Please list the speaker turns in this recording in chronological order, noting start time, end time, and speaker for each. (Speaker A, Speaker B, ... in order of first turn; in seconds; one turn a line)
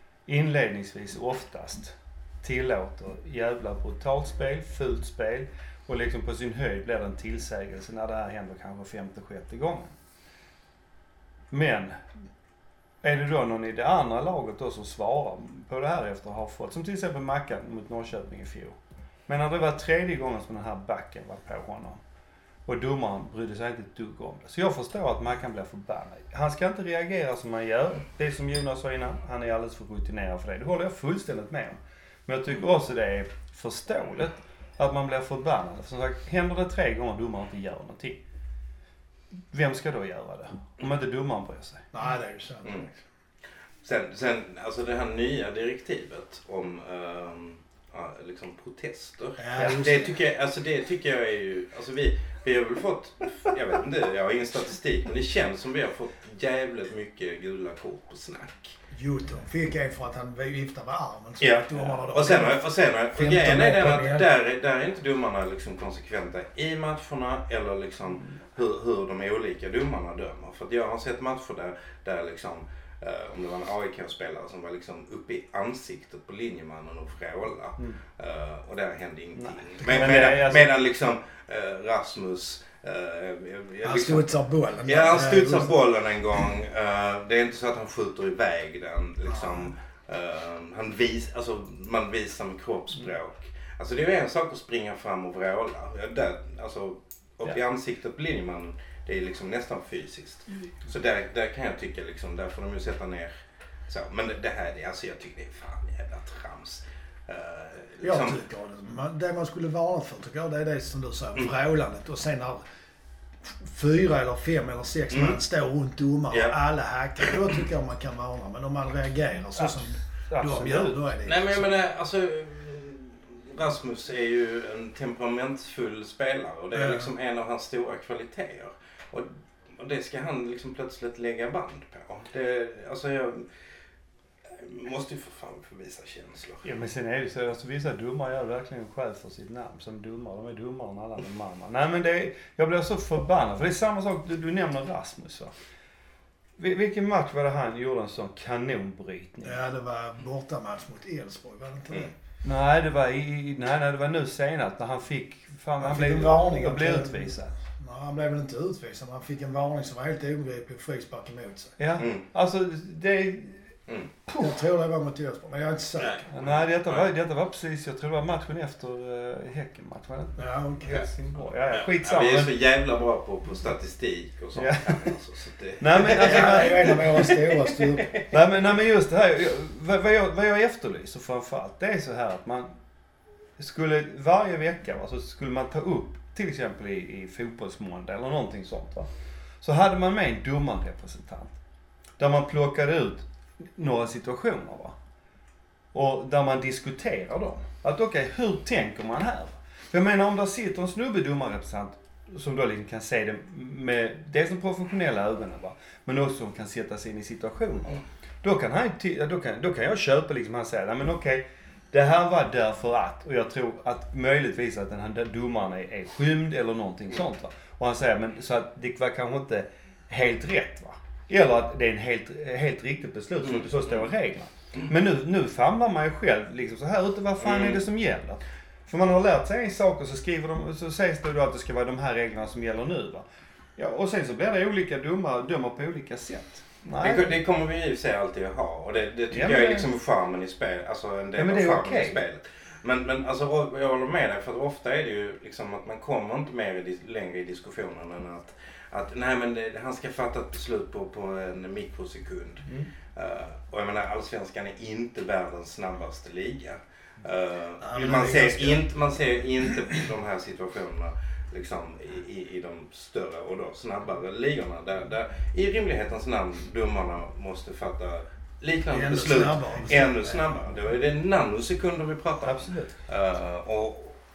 Speaker A: 0.2-9.9
Speaker A: 11.5-12.0
Speaker A: 13.0-22.0
Speaker A: 22.6-38.2
Speaker A: 39.5-41.9
Speaker B: 41.9-42.9
Speaker C: 43.8-58.8
Speaker B: 49.4-50.2
Speaker B: 58.9-64.2
Speaker C: 61.4-84.3
Speaker A: 79.3-80.7
Speaker B: 79.8-80.3
Speaker B: 83.8-85.7
Speaker C: 84.8-103.3
Speaker B: 89.2-89.7
Speaker C: 103.9-108.4
Speaker B: 108.0-112.6
Speaker B: 113.4-121.8
Speaker C: 115.1-115.4
Speaker C: 116.3-116.6
Speaker A: 119.6-121.1
Speaker C: 121.2-133.5
Speaker B: 126.7-127.1
Speaker C: 134.4-136.7
Speaker A: 136.6-145.5
Speaker A: 146.6-149.6
Speaker B: 149.4-152.1
Speaker A: 152.4-157.5
Speaker B: 155.8-161.8
Speaker A: 161.8-163.7
Speaker C: 162.0-162.2
Speaker A: 164.3-164.6
Speaker B: 164.4-166.2
Speaker C: 166.0-167.1
Speaker A: 166.3-172.5
Speaker B: 170.4-170.9
Speaker C: 171.7-178.3
Speaker A: 174.6-175.0
Speaker A: 175.8-177.2
Speaker B: 175.9-178.1
Speaker A: 178.3-182.8
Speaker A: 183.6-189.1
Speaker A: 189.6-191.5
Speaker A: 192.2-194.9
Speaker A: 195.9-233.2
Speaker C: 227.4-227.8
Speaker A: 233.8-237.4
Speaker C: 237.0-274.2
Speaker A: 239.3-239.9
Speaker A: 241.3-242.2
Speaker B: 257.8-258.8
Speaker B: 268.9-270.4
Speaker A: 272.4-272.9